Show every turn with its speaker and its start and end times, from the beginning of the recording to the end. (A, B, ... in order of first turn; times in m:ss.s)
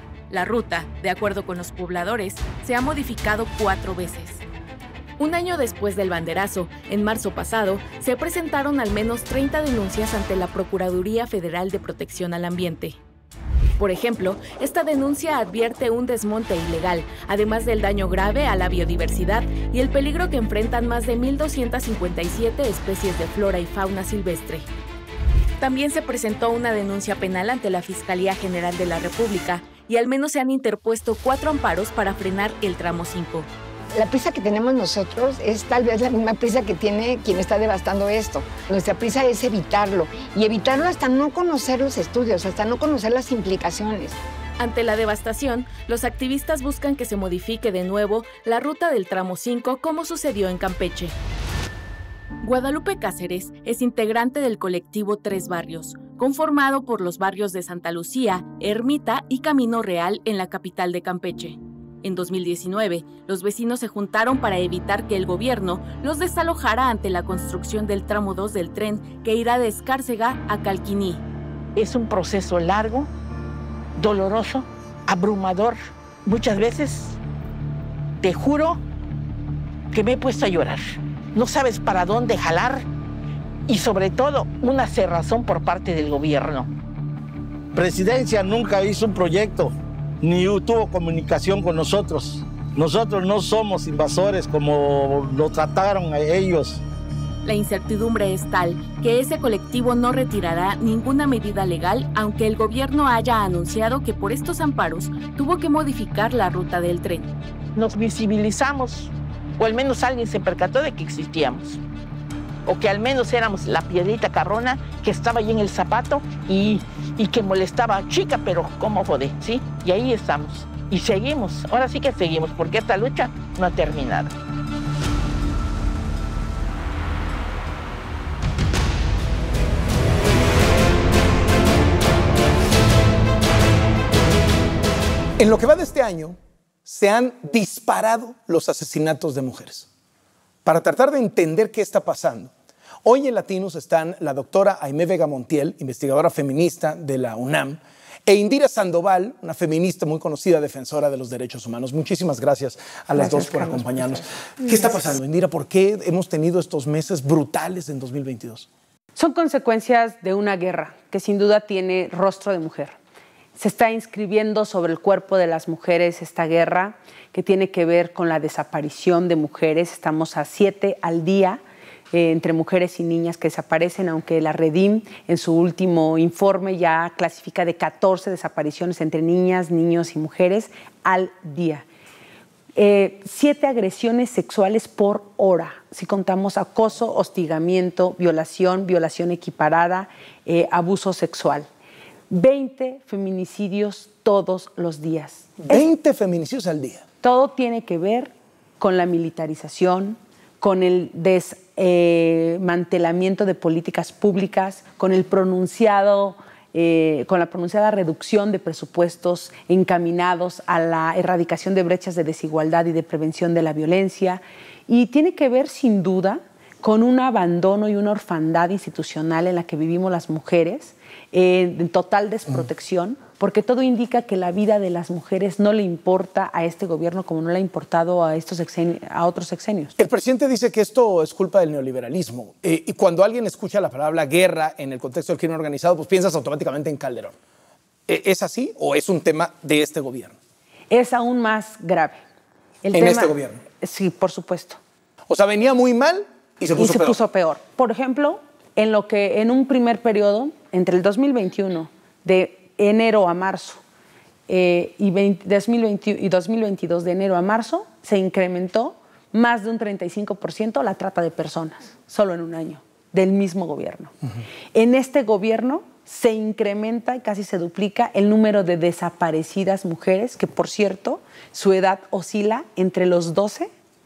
0:00.3-0:04.4 A
0:05.2-0:13.0 A
0:13.8-0:24.6 A
0:25.6-0:33.5 A
0:33.9-0:44.2 B
0:44.6-0:51.1 A
0:52.4-1:11.2 A
1:11.7-1:13.1 C
1:14.0-1:17.2 C
1:18.2-1:18.8 C
1:19.9-1:22.8 C
1:23.7-1:26.7 C
1:27.7-1:36.8 D
1:37.4-1:47.3 A
1:47.8-1:51.8 C
1:52.6-2:04.3 C
2:15.4-2:19.9 E
2:20.6-2:22.5 E
2:23.0-2:38.7 E
2:33.2-2:34.9 F
2:39.1-2:42.9 F
2:43.6-2:51.6 F
2:52.1-3:01.8 F
3:02.7-3:11.7 F
3:12.3-3:15.8 F
3:15.6-3:17.0 E
3:17.2-3:49.9 F
3:50.0-3:57.3 E
3:58.1-4:00.4 E
4:00.9-4:02.2 F
4:02.8-4:04.8 F
4:02.9-4:03.6 E
4:05.3-4:07.2 E
4:06.8-4:13.8 F
4:14.5-4:24.1 F
4:24.7-4:33.7 F